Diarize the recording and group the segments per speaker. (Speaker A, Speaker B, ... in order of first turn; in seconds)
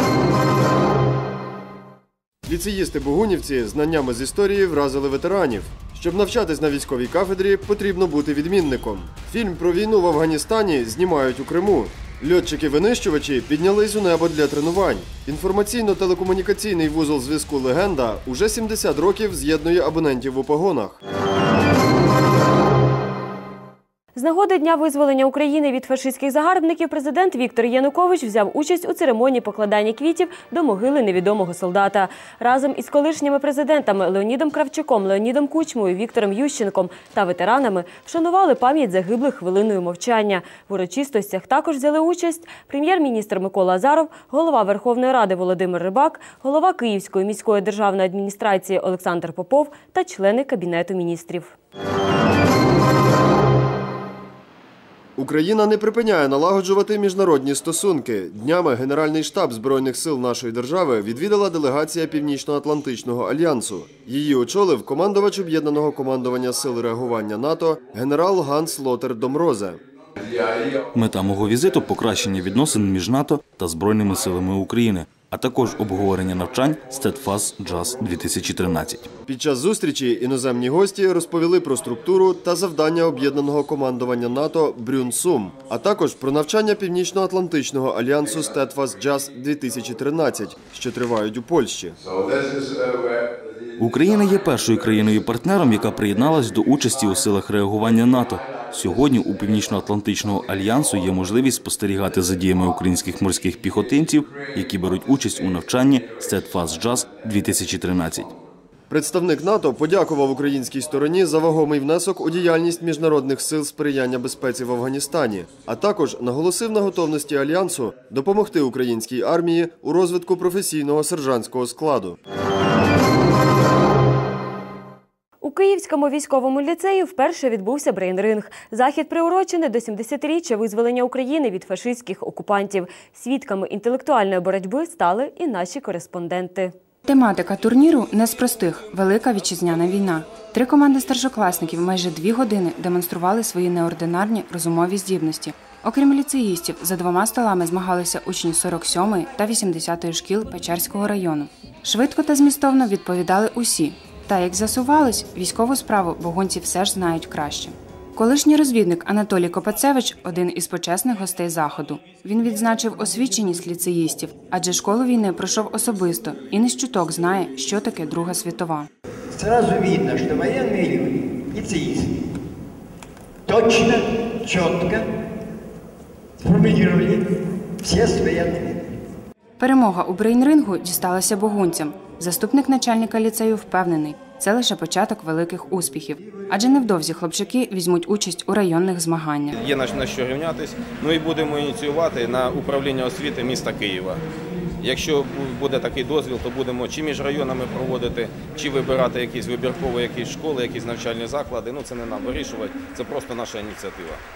Speaker A: 2.5-21.0, 55.2-69.8, 79.3-92.0, 108.9-122.2
Speaker B: 24.1-51.5, 125.4-136.7
Speaker C: 70.9-79.1, 93.8-108.3
Speaker D: 137.1-168.9, 179.6-189.6
Speaker E: 169.3-172.2, 173.5-175.1, 176.4-178.9
Speaker F: 189.6-194.2, 194.8-204.2